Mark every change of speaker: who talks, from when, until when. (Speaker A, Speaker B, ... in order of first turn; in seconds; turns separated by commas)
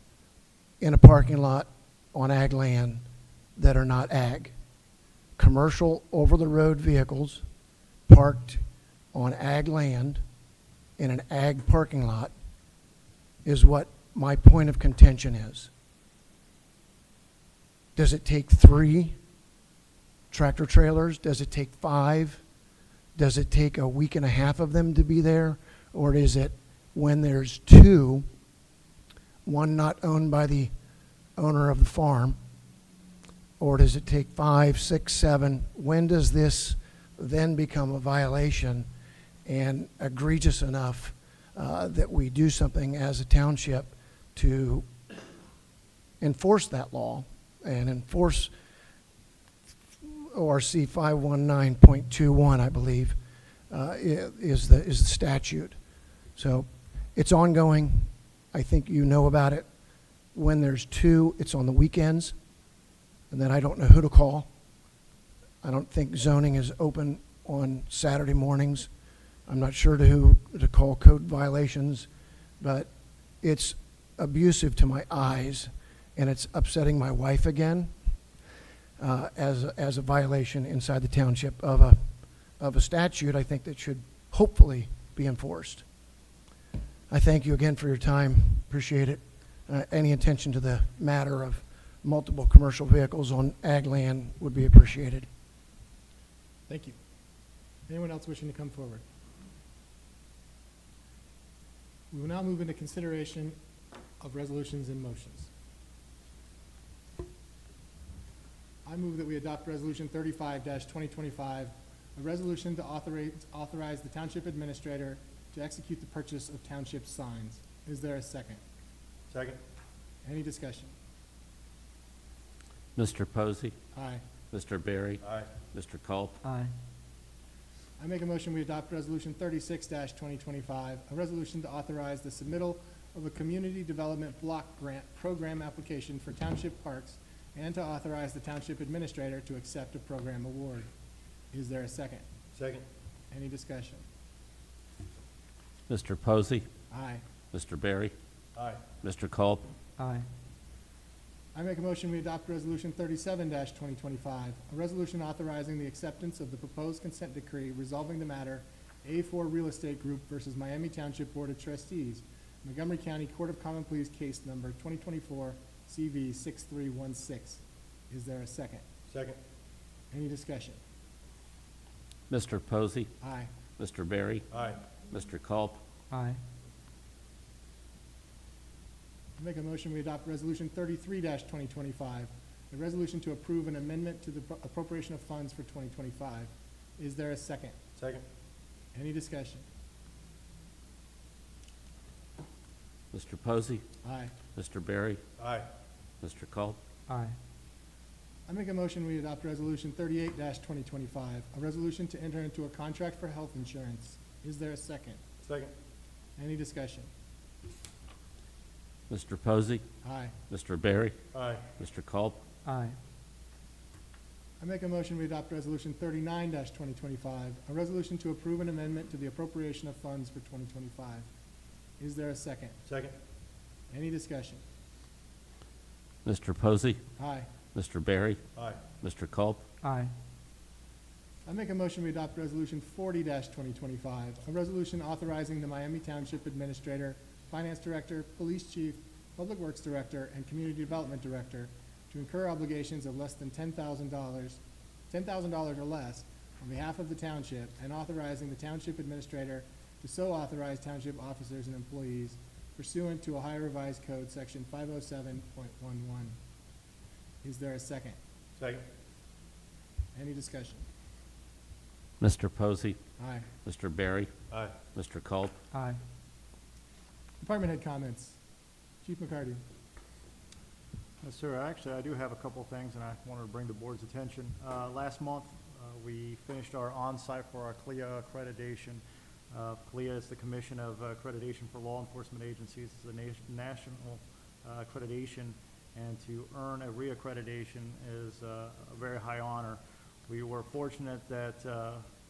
Speaker A: 0.8-3.0, Speaker A: 3.6-4.5, Speaker A: 5.4-7.4, Speaker A: 8.1-10.2, Speaker A: 11.0-12.3, Speaker A: 13.4-15.7, Speaker A: 18.0-19.1, Speaker A: 20.3-22.4, Speaker A: 23.2-28.3, Speaker A: 29.4-30.7, Speaker A: 31.4-32.4, Speaker A: 33.6-38.9, Speaker A: 39.5-44.9, Speaker A: 46.2-48.5, Speaker A: 50.1-53.2, Speaker A: 53.7-55.8, Speaker A: 56.4-59.7, Speaker A: 60.4-62.3, Speaker A: 63.3-64.5, Speaker A: 65.6-68.9, Speaker A: 69.5-72.1, Speaker A: 72.6-72.9, Speaker A: 73.4-77.9, Speaker A: 79.0-82.0, Speaker A: 82.6-85.8, Speaker A: 87.1-95.3, Speaker B: 96.7-97.0, Speaker B: 97.9-99.0, Speaker B: 102.1-103.6, Speaker B: 104.2-105.5, Speaker B: 108.9-118.6, Speaker C: 119.3-119.6, Speaker B: 120.2-120.9, Speaker D: 123.0-123.7, Speaker B: 124.0-124.2, Speaker D: 124.5-126.4, Speaker C: 125.2-125.5, Speaker E: 126.4-126.7, Speaker B: 128.0-140.9, Speaker B: 141.5-142.2, Speaker C: 142.6-142.8, Speaker B: 143.3-144.0, Speaker D: 145.9-146.7, Speaker B: 146.9-147.2, Speaker D: 147.5-148.1, Speaker C: 148.6-148.8, Speaker D: 149.0-149.6, Speaker E: 150.0-150.3, Speaker B: 151.5-168.8, Speaker C: 169.1-169.4, Speaker B: 170.1-170.8, Speaker D: 172.3-173.1, Speaker B: 173.2-173.5, Speaker D: 173.8-174.4, Speaker C: 174.5-174.8, Speaker D: 175.1-175.8, Speaker E: 176.1-176.4, Speaker B: 179.4-187.8, Speaker C: 188.0-188.2, Speaker B: 188.9-189.6, Speaker D: 193.1-193.8, Speaker B: 194.0-194.3, Speaker D: 194.6-195.2, Speaker C: 195.4-195.7, Speaker D: 196.2-196.8, Speaker E: 197.1-197.4, Speaker B: 198.5-205.2, Speaker C: 205.4-205.7, Speaker B: 206.4-207.1, Speaker D: 209.1-209.8, Speaker B: 210.0-210.3, Speaker D: 210.5-211.2, Speaker C: 211.3-211.7, Speaker D: 211.8-212.4, Speaker E: 212.7-213.0, Speaker B: 214.6-221.3, Speaker B: 222.0-222.8, Speaker C: 222.9-223.2, Speaker B: 223.9-224.6, Speaker D: 226.2-227.0, Speaker B: 227.2-227.5, Speaker D: 227.7-228.4, Speaker C: 228.6-228.8, Speaker D: 229.0-229.6, Speaker E: 229.8-230.1, Speaker B: 231.5-244.6, Speaker B: 245.1-256.4, Speaker B: 257.4-258.2, Speaker B: 260.1-260.9, Speaker D: 262.2-263.0, Speaker B: 263.2-263.4, Speaker D: 263.6-264.3, Speaker C: 264.5-264.8, Speaker D: 264.9-265.5, Speaker E: 265.7-266.0, Speaker B: 267.4-268.4, Speaker B: 269.0-269.6, Speaker F: 271.2-292.0